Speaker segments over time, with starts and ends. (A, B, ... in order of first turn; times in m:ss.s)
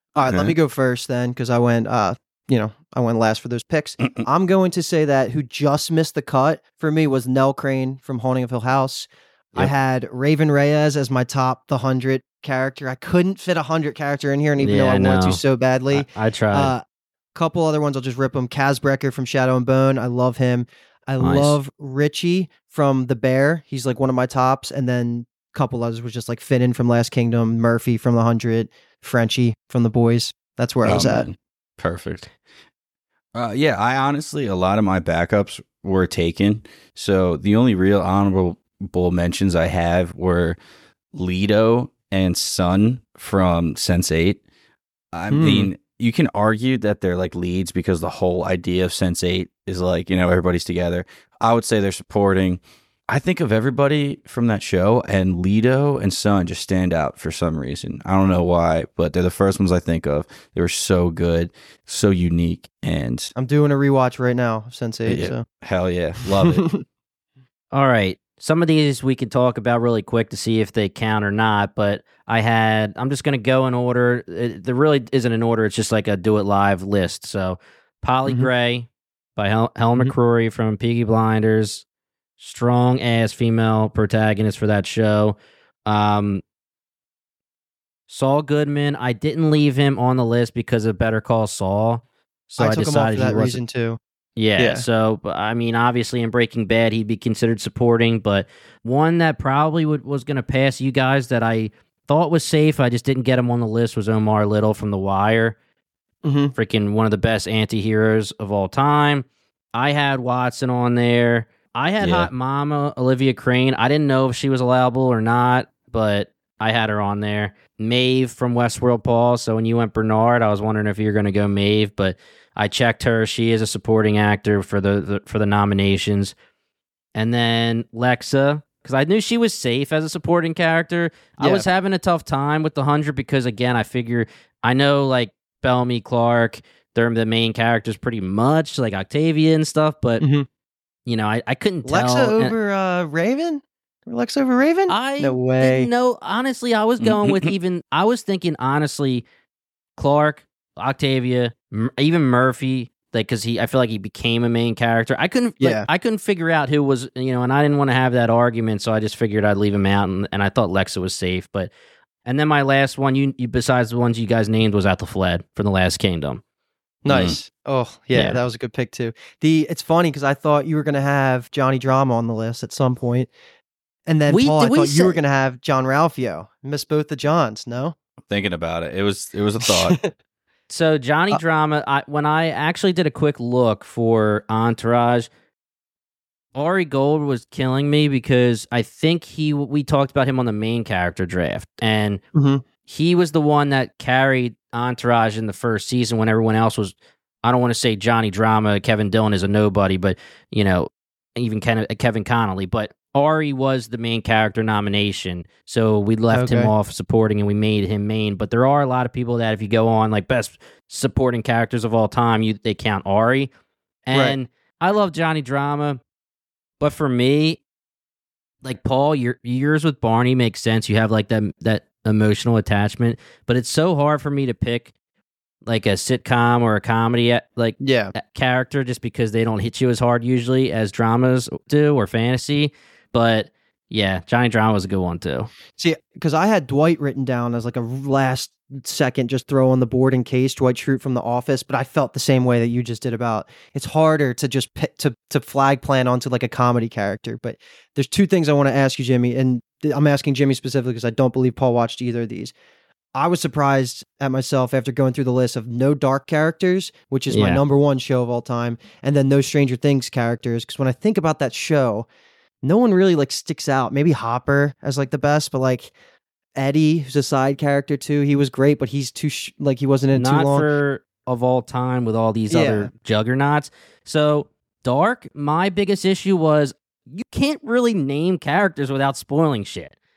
0:00.2-0:16.8 A
0:00.3-0:00.5 B
0:14.6-0:16.7 C
0:17.4-0:31.3 A
0:21.2-0:21.6 C
0:30.8-0:32.3 B
0:33.4-0:40.6 B
0:41.1-0:44.4 B
0:45.1-1:03.3 B
0:45.3-0:45.7 A
1:03.4-1:05.4 A
1:05.1-1:06.7 B
1:06.5-1:06.8 A
1:07.7-1:21.8 C
1:22.4-1:26.4 C
1:28.1-1:33.6 C
1:32.6-1:34.0 A
1:34.4-1:45.6 C
1:34.6-1:34.9 A
1:46.2-1:46.5 A
1:46.6-2:06.3 C
1:52.0-1:52.3 B
2:07.2-2:20.3 C
2:11.4-2:11.7 A
2:20.2-2:20.5 A
2:21.1-2:22.6 C
2:21.8-2:25.9 A
2:24.9-2:29.2 C
2:27.0-2:27.5 B
2:30.0-2:41.7 C
2:35.6-2:35.9 A
2:42.2-2:46.4 C
2:47.0-2:53.3 A
2:47.1-2:47.4 B
2:48.1-2:48.4 C
2:54.1-2:58.0 A
2:54.3-2:55.2 C
2:58.3-3:00.0 B
2:59.6-3:00.1 A
3:00.7-3:05.3 C
3:06.6-3:12.2 C
3:12.4-3:12.6 A
3:12.9-3:33.5 C
3:26.3-3:26.7 A
3:34.1-3:36.0 C
3:36.8-3:37.6 C
3:38.6-3:44.9 C
3:45.6-3:55.5 C
3:47.8-3:48.1 A
3:55.8-4:12.5 A
4:13.2-4:22.1 A
4:17.3-4:17.6 C
4:22.6-4:25.9 A
4:26.6-4:30.7 A
4:30.1-4:40.0 C
4:32.5-4:32.9 A